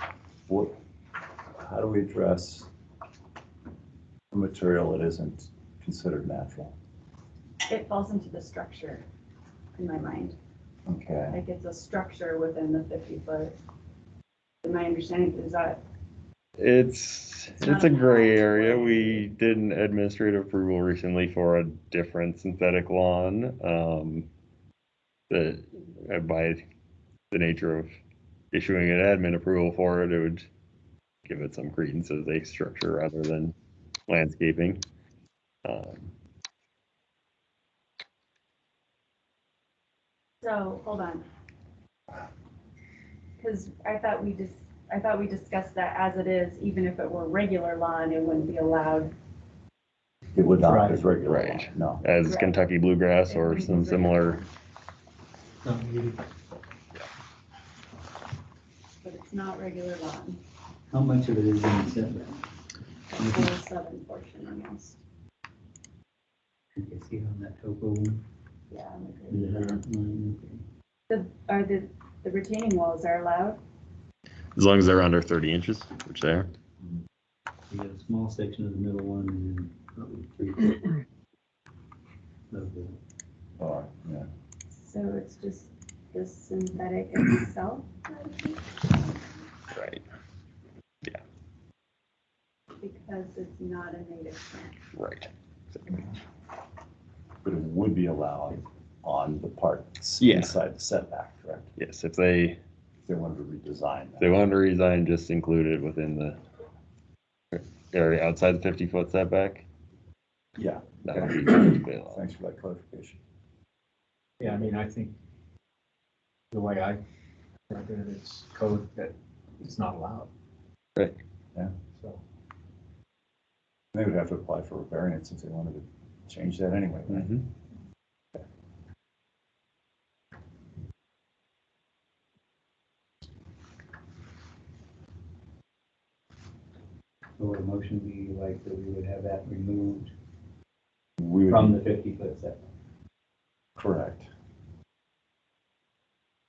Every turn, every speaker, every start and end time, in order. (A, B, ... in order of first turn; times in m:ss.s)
0:01.6-0:02.7 A
0:04.3-0:06.7 A
0:07.7-0:09.0 B
0:09.8-0:10.3 B
0:10.9-0:11.4 A
0:11.3-0:13.5 B
0:14.6-0:15.8 B
0:16.6-0:24.3 C
0:17.6-0:19.3 B
0:25.3-0:26.6 C
0:27.3-0:27.9 C
0:28.5-0:30.5 C
0:31.2-0:33.5 C
0:34.1-0:34.8 C
0:35.6-0:36.1 C
0:40.4-0:41.2 B
0:43.4-0:49.1 B
0:50.3-0:52.0 A
0:50.6-0:51.1 D
0:51.2-0:54.4 C
0:51.4-0:51.7 B
0:52.2-0:52.6 B
0:53.2-0:54.5 B
0:55.6-0:56.2 D
0:59.0-1:00.4 B
1:00.9-1:02.4 E
1:03.1-1:05.0 B
1:03.1-1:03.6 E
1:06.8-1:08.2 E
1:08.7-1:09.8 B
1:09.3-1:10.6 E
1:11.1-1:13.6 B
1:14.6-1:16.5 C
1:17.7-1:21.0 E
1:22.5-1:23.0 E
1:23.6-1:24.3 A
1:24.7-1:29.1 B
1:29.7-1:30.0 C
1:32.8-1:34.8 B
1:35.0-1:36.0 C
1:37.4-1:41.7 A
1:40.2-1:40.6 C
1:41.8-1:42.6 C
1:43.0-1:44.4 A
1:44.2-1:46.4 C
1:47.5-1:49.6 C
1:50.6-1:53.2 A
1:51.0-1:52.2 C
1:54.4-1:55.1 D
1:56.5-1:57.0 D
1:57.7-2:00.3 D
2:01.9-2:02.2 D
2:03.9-2:07.4 A
2:17.4-2:20.1 E
2:21.2-2:21.8 A
2:21.4-2:22.6 E
2:23.8-2:24.3 A